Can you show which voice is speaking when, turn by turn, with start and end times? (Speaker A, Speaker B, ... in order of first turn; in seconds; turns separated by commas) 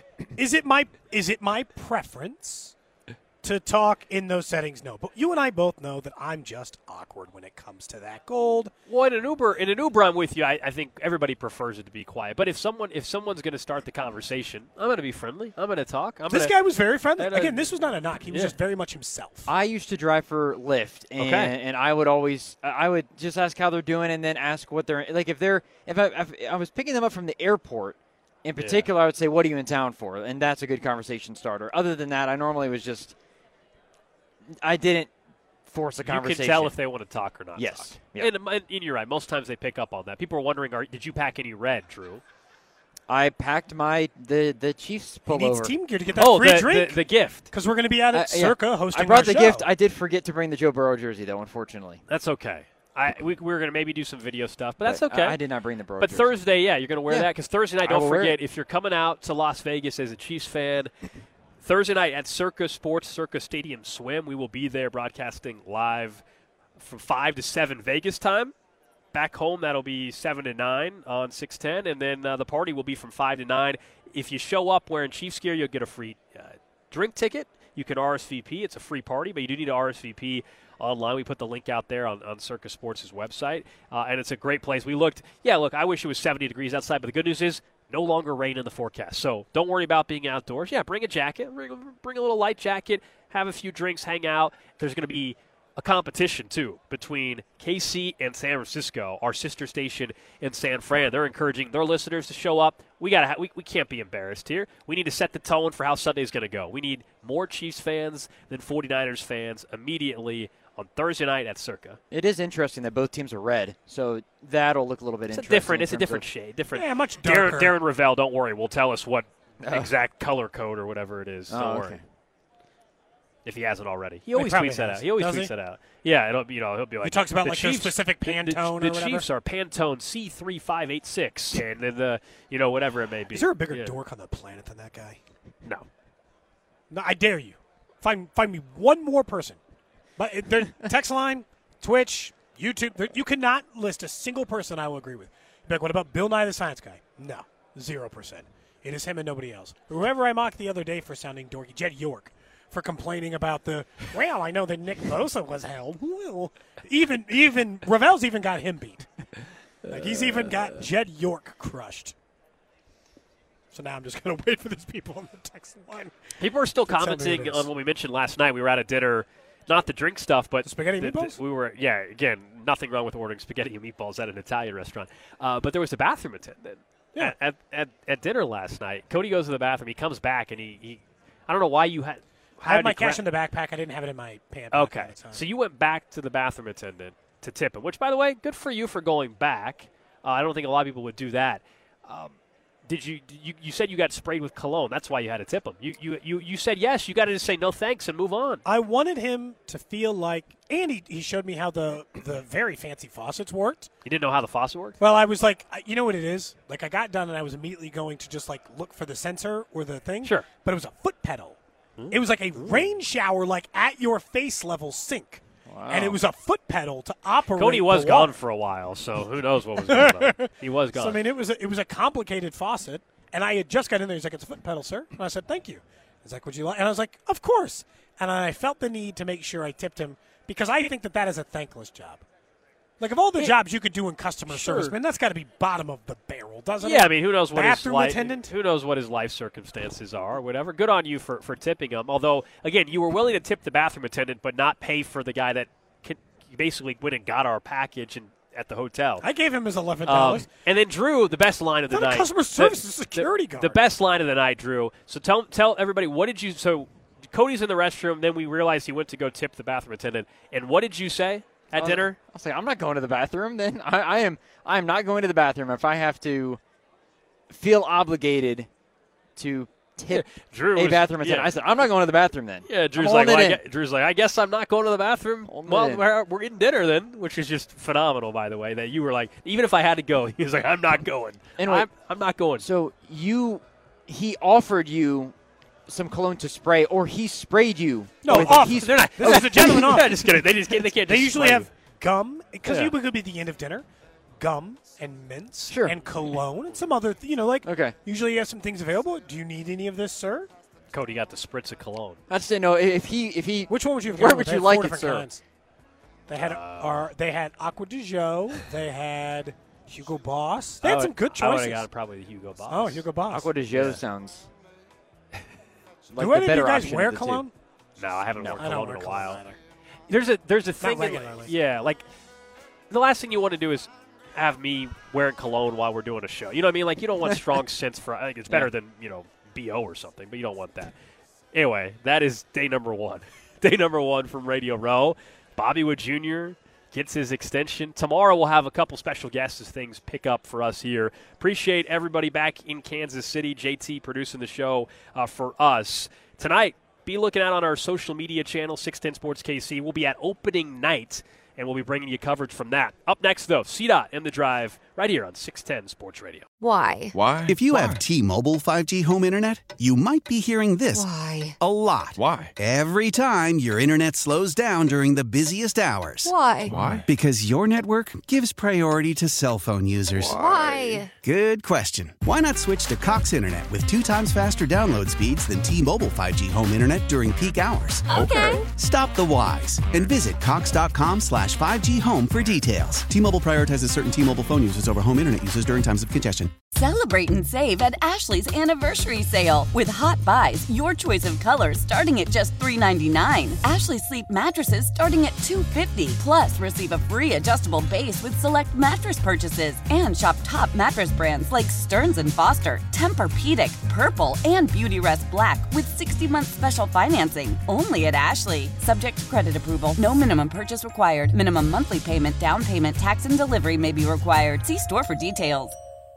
Speaker A: 0.3-2.7, Speaker A: 3.4-8.7, Speaker B: 8.9-16.6, Speaker A: 16.3-19.5, Speaker B: 17.1-17.8, Speaker B: 18.3-18.5, Speaker C: 19.5-33.1, Speaker B: 21.2-21.5, Speaker B: 28.6-28.9, Speaker C: 34.6-35.1, Speaker C: 35.6-36.7, Speaker B: 36.0-42.2, Speaker C: 37.5-38.3, Speaker C: 43.1-45.8, Speaker A: 45.3-49.6, Speaker B: 46.1-47.5, Speaker C: 48.1-52.0, Speaker B: 52.1-55.4, Speaker C: 54.8-56.3, Speaker B: 56.0-60.9, Speaker C: 57.8-58.4, Speaker B: 61.6-66.2, Speaker B: 66.8-68.5, Speaker B: 69.1-112.0, Speaker C: 112.1-116.2, Speaker B: 115.3-122.0, Speaker A: 116.7-117.8, Speaker C: 119.6-119.9, Speaker C: 121.5-122.0, Speaker B: 123.4-134.0, Speaker A: 124.3-125.5, Speaker A: 127.0-129.3, Speaker A: 133.3-135.2, Speaker A: 136.9-139.6, Speaker A: 140.2-159.1, Speaker A: 159.8-162.1, Speaker B: 159.9-160.5, Speaker A: 163.7-166.3, Speaker B: 166.4-183.2, Speaker A: 166.9-167.7, Speaker A: 170.6-171.4, Speaker A: 182.6-185.4, Speaker B: 184.7-198.6, Speaker A: 198.6-203.9, Speaker B: 204.0-205.0, Speaker A: 205.0-211.6, Speaker B: 212.0-212.9, Speaker A: 212.1-218.3, Speaker C: 215.7-216.2, Speaker B: 217.6-221.2, Speaker A: 219.8-232.2, Speaker A: 233.0-238.5, Speaker B: 234.5-234.9, Speaker B: 236.8-249.2, Speaker A: 249.2-250.5, Speaker B: 250.1-262.2, Speaker A: 251.9-253.8, Speaker C: 261.7-266.6, Speaker C: 267.5-268.7, Speaker C: 269.4-273.6, Speaker B: 270.1-271.9, Speaker B: 272.6-282.6, Speaker C: 275.5-276.0, Speaker C: 281.6-281.9, Speaker C: 282.6-285.3, Speaker C: 285.9-290.1, Speaker A: 288.2-290.4, Speaker B: 288.3-291.7, Speaker A: 291.0-293.9, Speaker B: 292.6-292.9, Speaker A: 294.4-300.5, Speaker C: 295.7-296.0, Speaker C: 297.6-297.9, Speaker B: 300.9-302.2, Speaker C: 302.3-305.3, Speaker A: 303.7-305.4, Speaker A: 306.3-311.9, Speaker B: 306.4-307.1, Speaker B: 310.8-313.1, Speaker A: 312.7-313.5, Speaker C: 313.3-314.5, Speaker B: 313.7-314.0, Speaker C: 316.1-317.4, Speaker A: 316.2-317.5, Speaker B: 318.0-319.4, Speaker A: 318.5-319.6, Speaker B: 320.1-322.0, Speaker A: 320.8-321.5, Speaker B: 322.9-330.9, Speaker B: 331.5-356.5, Speaker D: 356.6-357.1, Speaker E: 357.1-358.0, Speaker F: 357.5-361.1, Speaker D: 360.9-361.6, Speaker F: 361.6-366.4, Speaker E: 362.1-362.5, Speaker D: 366.2-366.8, Speaker E: 366.6-367.0, Speaker F: 367.0-386.5, Speaker E: 370.2-371.0, Speaker D: 370.2-371.1, Speaker E: 378.1-378.5, Speaker D: 378.2-378.6, Speaker G: 386.7-415.7